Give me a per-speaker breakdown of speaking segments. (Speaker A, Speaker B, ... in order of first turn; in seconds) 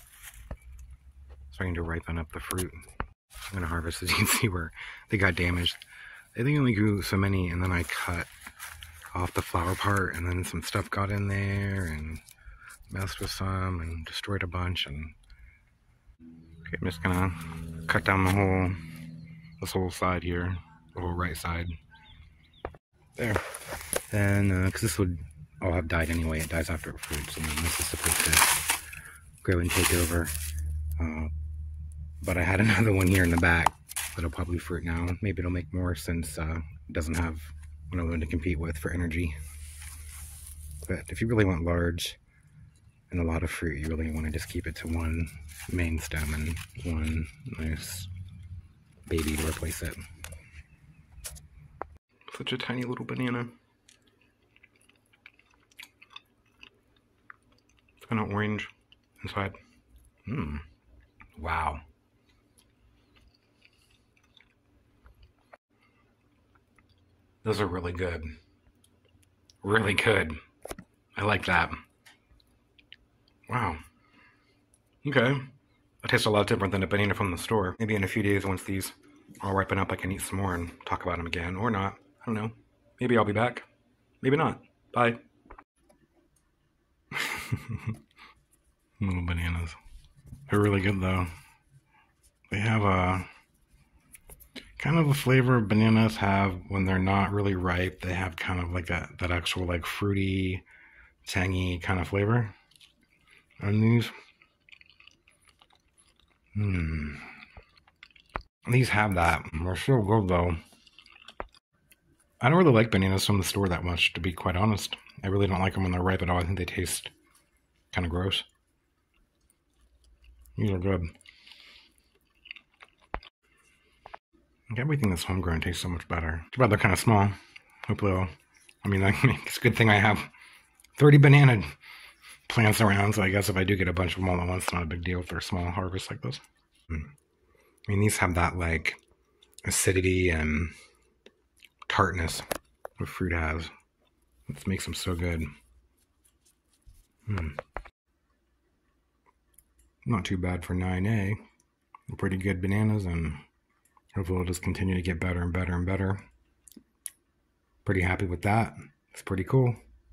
Speaker A: 1.5-2.8, 3.5-5.8, 6.3-8.3, 9.1-12.2, 12.9-15.2, 16.7-18.8, 19.6-21.8, 23.2-23.5, 24.1-28.6, 29.4-30.3, 31.0-31.3, 32.2-39.4, 40.9-42.2, 43.1-48.1, 49.1-50.0, 52.3-53.5, 58.0-59.6, 60.3-60.6, 61.4-61.8, 67.4-68.4, 69.6-70.4, 71.2-71.8, 73.5-73.8, 75.0-75.5, 76.0-83.7, 84.2-85.2, 87.1-88.0, 89.0-89.8, 90.5-91.3, 92.5-93.3, 94.8-100.7, 101.2-102.5, 103.6-104.1, 106.5-107.3, 108.7-110.6, 112.4-117.1, 117.9-118.5, 120.6-121.1, 124.7-128.3, 128.8-130.3, 131.0-131.7, 132.5-137.1, 137.9-139.0, 139.6-140.8, 141.9-142.5, 143.0-143.7, 144.5-145.5, 147.3-147.6, 150.1-151.4, 152.1-153.4, 154.1-156.2, 157.8-159.8